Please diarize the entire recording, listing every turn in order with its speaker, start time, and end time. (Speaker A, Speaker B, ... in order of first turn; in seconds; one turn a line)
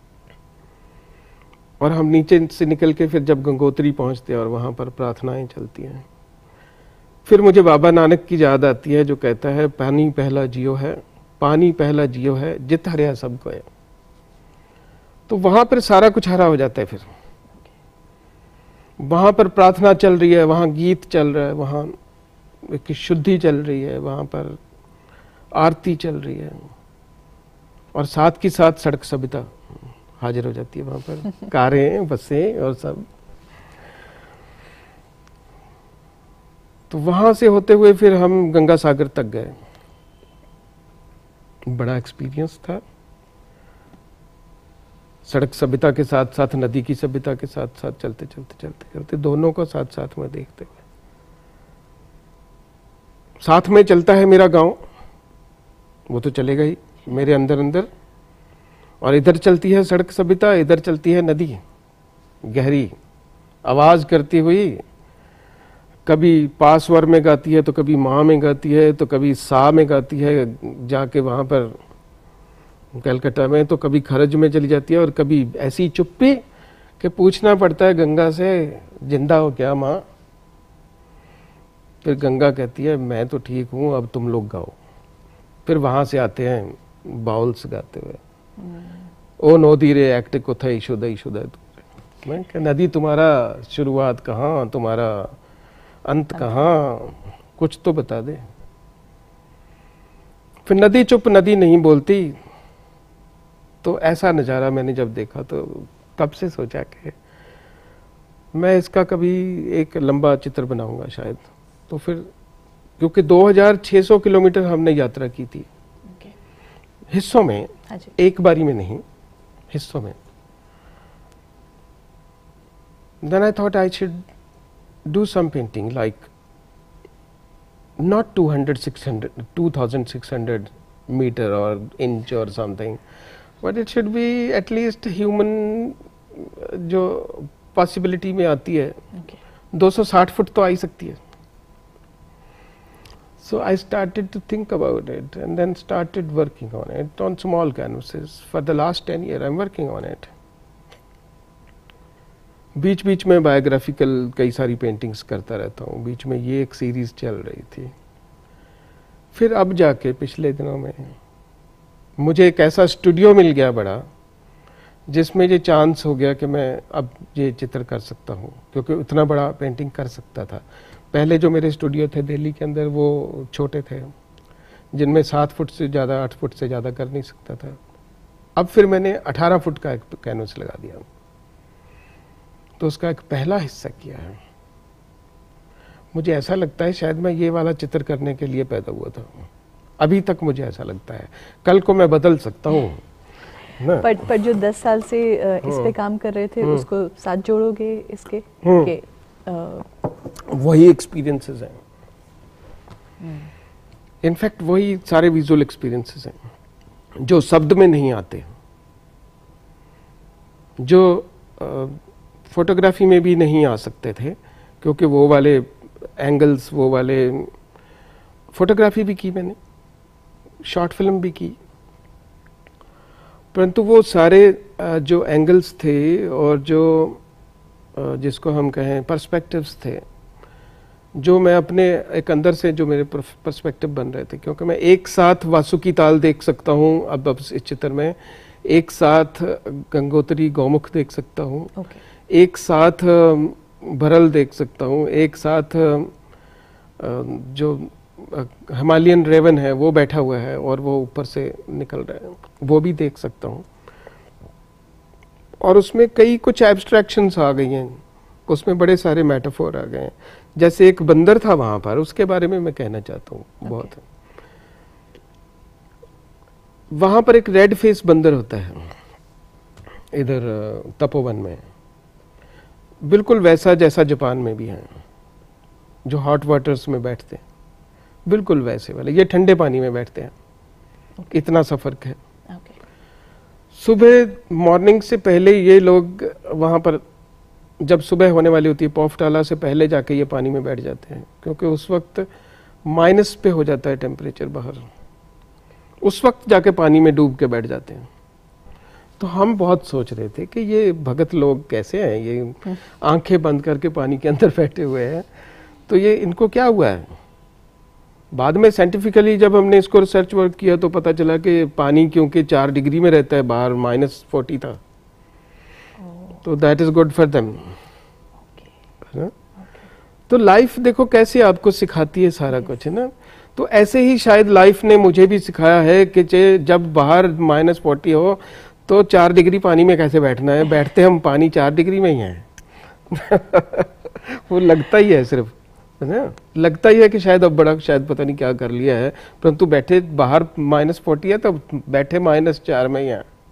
Speaker A: 1.8-6.0
Speaker A: 7.2-13.7
Speaker A: 15.3-17.1
Speaker A: 19.0-21.9
Speaker A: 22.6-24.6
Speaker A: 25.5-26.7
Speaker A: 27.9-29.6
Speaker A: 30.2-33.1
Speaker A: 36.9-39.5
Speaker A: 41.7-42.8
Speaker A: 45.2-50.8
Speaker A: 53.4-54.8
Speaker A: 56.1-57.9
Speaker A: 59.0-61.6
Speaker A: 62.4-62.9
Speaker A: 63.6-64.8
Speaker A: 66.1-71.8
Speaker A: 72.9-76.4
Speaker A: 77.0-80.0
Speaker A: 82.0-84.8
Speaker A: 85.7-88.2
Speaker B: 88.6-89.0
Speaker A: 89.4-95.4
Speaker A: 96.1-98.4
Speaker A: 100.7-102.4
Speaker A: 103.8-107.2
Speaker A: 108.5-112.3
Speaker A: 113.0-115.7
Speaker A: 117.1-119.0
Speaker A: 119.7-120.2
Speaker A: 123.2-124.2
Speaker A: 125.1-126.3
Speaker A: 128.0-133.0
Speaker A: 133.6-139.0
Speaker A: 139.7-141.2
Speaker A: 143.4-150.3
Speaker A: 152.8-157.9
Speaker A: 159.3-161.2
Speaker A: 162.2-164.1
Speaker A: 165.1-174.1
Speaker A: 174.9-177.8
Speaker A: 178.6-181.1
Speaker A: 182.8-184.4
Speaker A: 186.1-189.5
Speaker A: 190.0-193.0
Speaker A: 193.8-194.1
Speaker B: 194.0-200.1
Speaker A: 195.7-195.9
Speaker A: 198.6-198.9
Speaker A: 200.2-201.8
Speaker B: 203.2-203.5
Speaker A: 204.2-206.4
Speaker A: 207.2-208.5
Speaker A: 210.8-217.5
Speaker A: 218.5-219.6
Speaker A: 220.6-221.6
Speaker A: 223.5-227.2
Speaker A: 227.9-230.0
Speaker A: 231.2-241.7
Speaker A: 242.3-246.1
Speaker A: 247.0-253.7
Speaker A: 255.6-264.0
Speaker B: 263.7-263.9
Speaker A: 266.9-268.9
Speaker A: 270.1-271.6
Speaker A: 273.0-274.9
Speaker A: 276.1-277.4
Speaker A: 278.3-280.3
Speaker A: 281.3-282.2
Speaker B: 282.5-282.8
Speaker A: 283.7-287.0
Speaker A: 287.8-292.3
Speaker A: 292.9-294.9
Speaker A: 296.0-298.1
Speaker A: 299.2-305.3
Speaker A: 305.9-307.1
Speaker A: 308.3-314.8
Speaker B: 316.0-316.4
Speaker A: 316.4-317.7
Speaker A: 320.3-332.5
Speaker A: 333.1-343.2